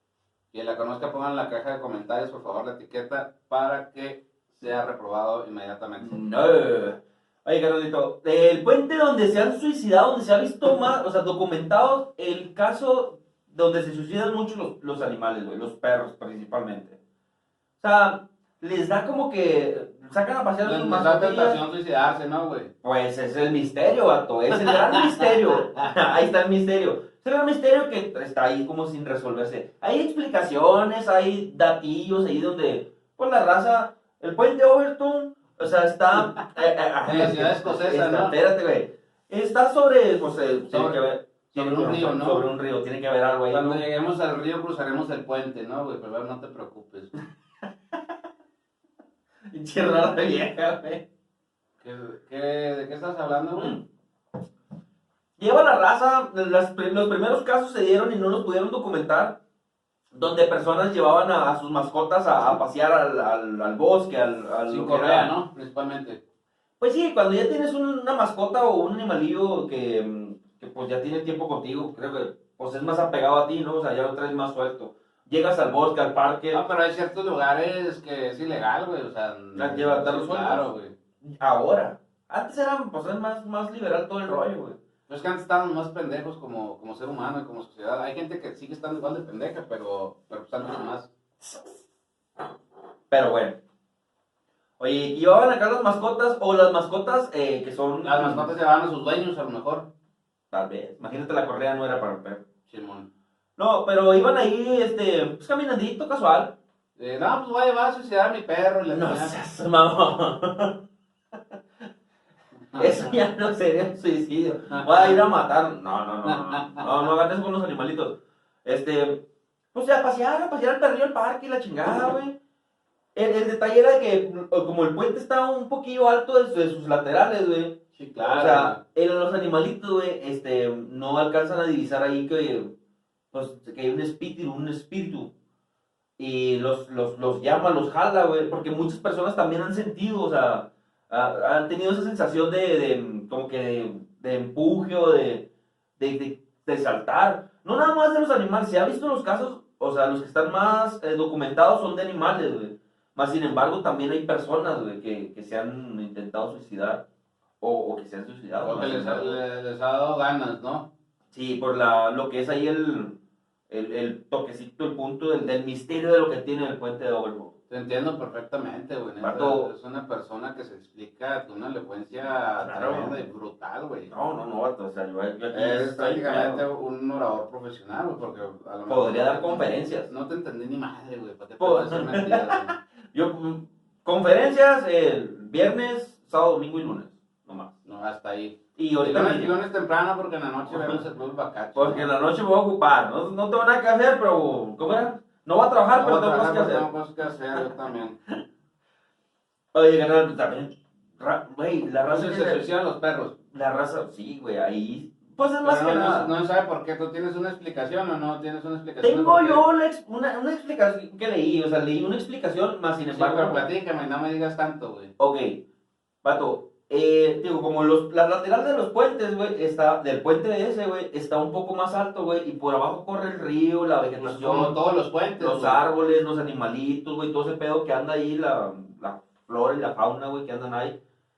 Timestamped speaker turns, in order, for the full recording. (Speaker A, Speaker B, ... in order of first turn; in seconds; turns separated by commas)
Speaker A: 0.5-6.2, Speaker B: 6.0-17.0, Speaker B: 17.8-21.6, Speaker A: 20.6-22.7, Speaker B: 22.8-43.8, Speaker A: 24.9-25.3, Speaker A: 37.0-38.4, Speaker A: 40.7-41.0, Speaker A: 41.5-42.5, Speaker A: 43.5-47.1, Speaker B: 49.5-51.0, Speaker A: 51.8-53.8, Speaker B: 53.5-53.8, Speaker B: 55.4-59.4, Speaker B: 60.1-65.3, Speaker A: 64.7-66.2, Speaker B: 66.8-76.6, Speaker A: 76.5-80.9, Speaker B: 79.6-80.7, Speaker B: 81.2-84.8, Speaker A: 85.1-91.1, Speaker B: 91.4-91.8, Speaker B: 93.1-93.6, Speaker B: 94.8-98.5, Speaker A: 98.0-99.9, Speaker B: 100.5-102.4, Speaker A: 102.7-103.1, Speaker B: 103.6-106.6, Speaker A: 107.0-109.3, Speaker B: 108.9-110.8, Speaker A: 112.7-113.1, Speaker B: 112.8-122.4, Speaker A: 114.7-115.2, Speaker A: 116.2-116.9, Speaker B: 123.2-132.7, Speaker A: 128.0-128.8, Speaker B: 133.3-135.3, Speaker B: 136.2-157.1, Speaker B: 157.6-159.4, Speaker A: 158.6-160.9, Speaker B: 161.3-163.2, Speaker B: 163.7-167.5, Speaker A: 167.7-174.1, Speaker B: 169.2-169.7, Speaker B: 172.6-173.2, Speaker B: 174.1-176.6, Speaker A: 175.5-182.8, Speaker B: 178.9-180.1, Speaker B: 181.6-187.7, Speaker A: 187.8-192.1, Speaker B: 188.8-189.5, Speaker B: 190.7-191.0, Speaker B: 191.8-196.9, Speaker A: 195.9-198.2, Speaker B: 199.7-202.6, Speaker A: 202.1-203.3, Speaker B: 203.5-206.3, Speaker A: 205.6-209.7, Speaker B: 209.0-213.7, Speaker A: 213.1-215.1, Speaker B: 215.2-215.6, Speaker B: 216.2-224.8, Speaker A: 224.2-225.8, Speaker B: 225.4-231.0